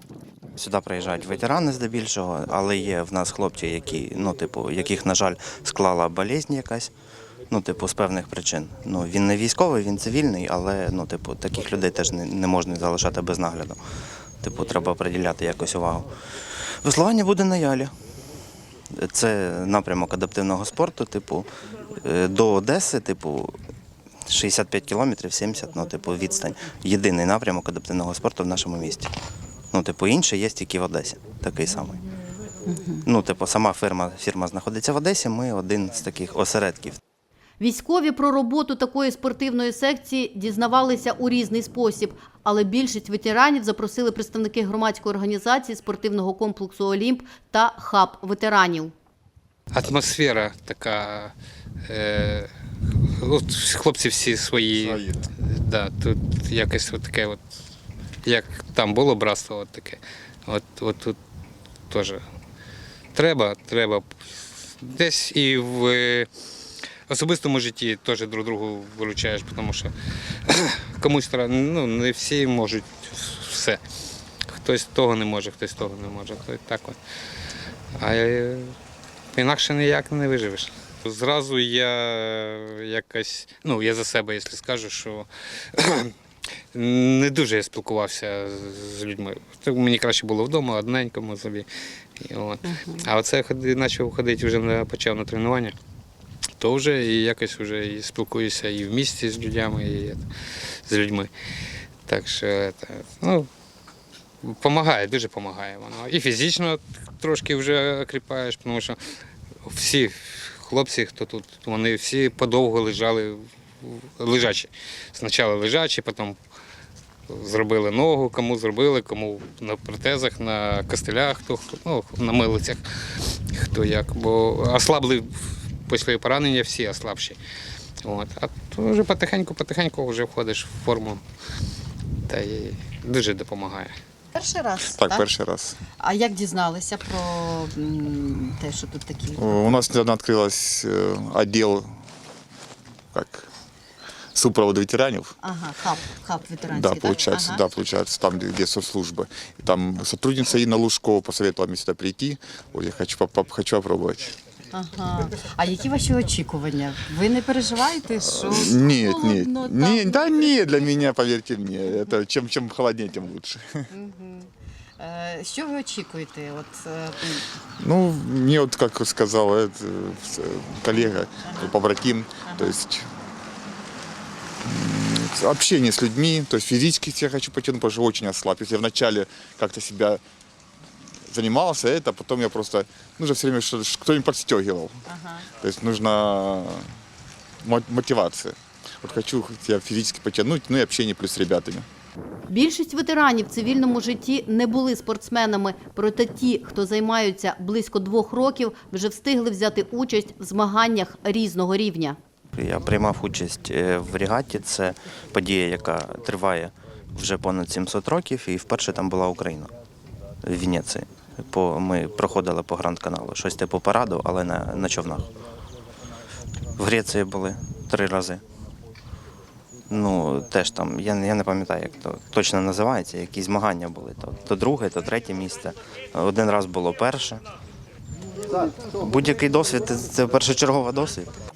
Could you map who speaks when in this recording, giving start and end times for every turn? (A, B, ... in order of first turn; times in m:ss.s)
0:00.6-0:06.9 A
0:07.5-0:13.8 A
0:14.4-0:16.1 A
0:16.6-0:17.9 A
0:19.0-0:21.5 A
0:22.0-0:23.5 A
0:24.3-0:29.1 A
0:29.7-0:32.0 A
0:32.7-0:33.0 B
0:33.1-0:37.0 A
0:37.6-0:48.9 B
0:49.7-0:51.3 C
0:51.9-0:52.5 C
0:53.2-0:57.4 C
0:54.7-0:55.3 D
0:58.2-1:01.2 C
1:01.9-1:02.2 C
1:03.1-1:06.3 C
1:07.1-1:09.9 C
1:10.4-1:13.8 C
1:14.5-1:17.0 C
1:17.9-1:18.8 C
1:19.3-1:26.1 C
1:26.7-1:31.7 C
1:32.2-1:35.7 C
1:36.6-1:41.3 C
1:42.1-1:43.5 C
1:44.4-1:49.0 C
1:49.6-1:56.4 C
1:57.3-2:07.4 C
2:08.0-2:11.2 C
2:12.3-2:13.9 C
2:14.3-2:15.3 E
2:14.9-2:15.8 D
2:16.0-2:19.8 E
2:19.4-2:21.9 D
2:23.1-2:23.5 D
2:24.3-2:25.4 D
2:25.4-2:27.6 E
2:26.7-2:34.3 D
2:34.7-2:40.7 E
2:38.2-2:43.8 D
2:43.9-2:47.4 E
2:47.8-2:53.1 D
2:51.4-2:51.7 E
2:52.4-2:52.8 E
2:54.6-3:00.2 D
3:01.3-3:05.0 D
3:05.1-3:05.5 E
3:05.5-3:06.8 D
3:07.6-3:11.9 D
3:12.5-3:22.2 B
3:22.5-3:29.7 A
3:30.4-3:35.3 A
3:36.8-3:38.4 A
3:39.9-3:47.4 A
3:49.1-3:51.3 A